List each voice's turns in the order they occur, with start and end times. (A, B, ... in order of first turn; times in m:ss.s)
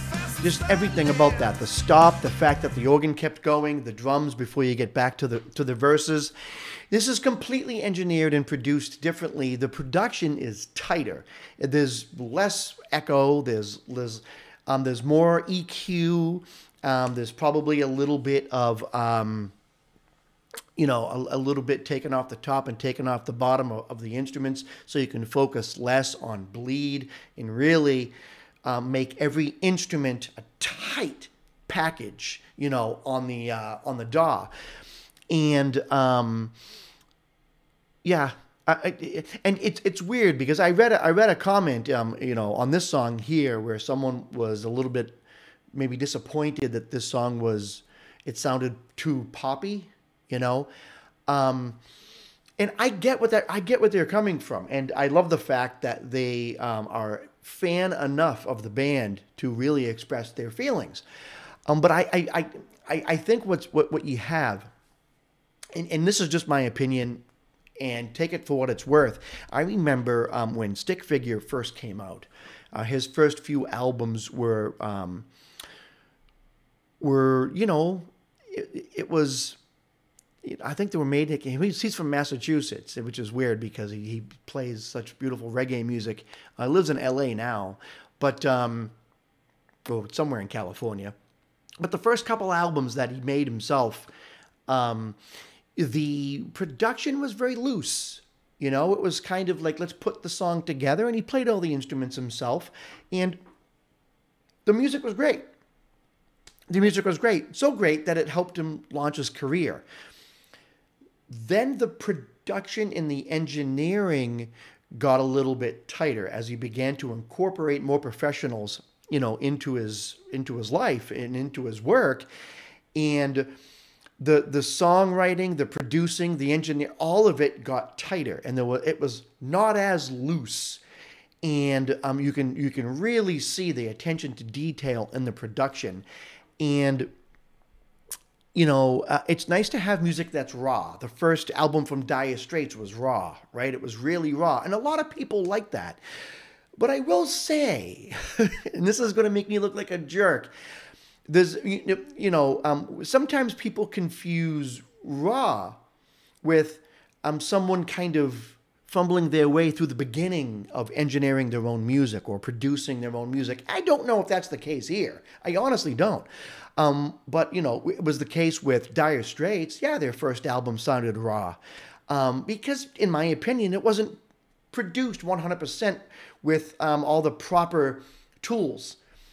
0:00.4-0:06.3 A
0:06.9-0:19.5 A
0:20.8-0:28.1 A
0:28.6-0:34.5 A
0:35.3-0:36.5 A
0:38.0-0:45.2 A
0:45.7-0:50.7 A
0:51.3-0:51.8 A
0:52.6-1:01.0 A
1:01.7-1:04.7 A
1:05.7-1:07.2 A
1:07.8-1:15.3 A
1:17.0-1:19.6 A
1:20.4-1:28.9 A
1:29.8-1:31.1 A
1:31.8-1:34.1 A
1:34.7-1:35.2 A
1:35.8-1:43.4 A
1:44.6-1:45.4 A
1:46.7-1:49.8 A
1:51.3-2:02.3 A
2:02.9-2:03.5 A
2:04.2-2:10.8 A
2:11.4-2:16.0 A
2:16.6-2:17.1 A
2:18.5-2:26.0 A
2:26.8-2:30.5 A
2:31.3-2:35.8 A
2:36.4-2:46.3 A
2:46.8-2:54.2 A
2:54.7-2:59.0 A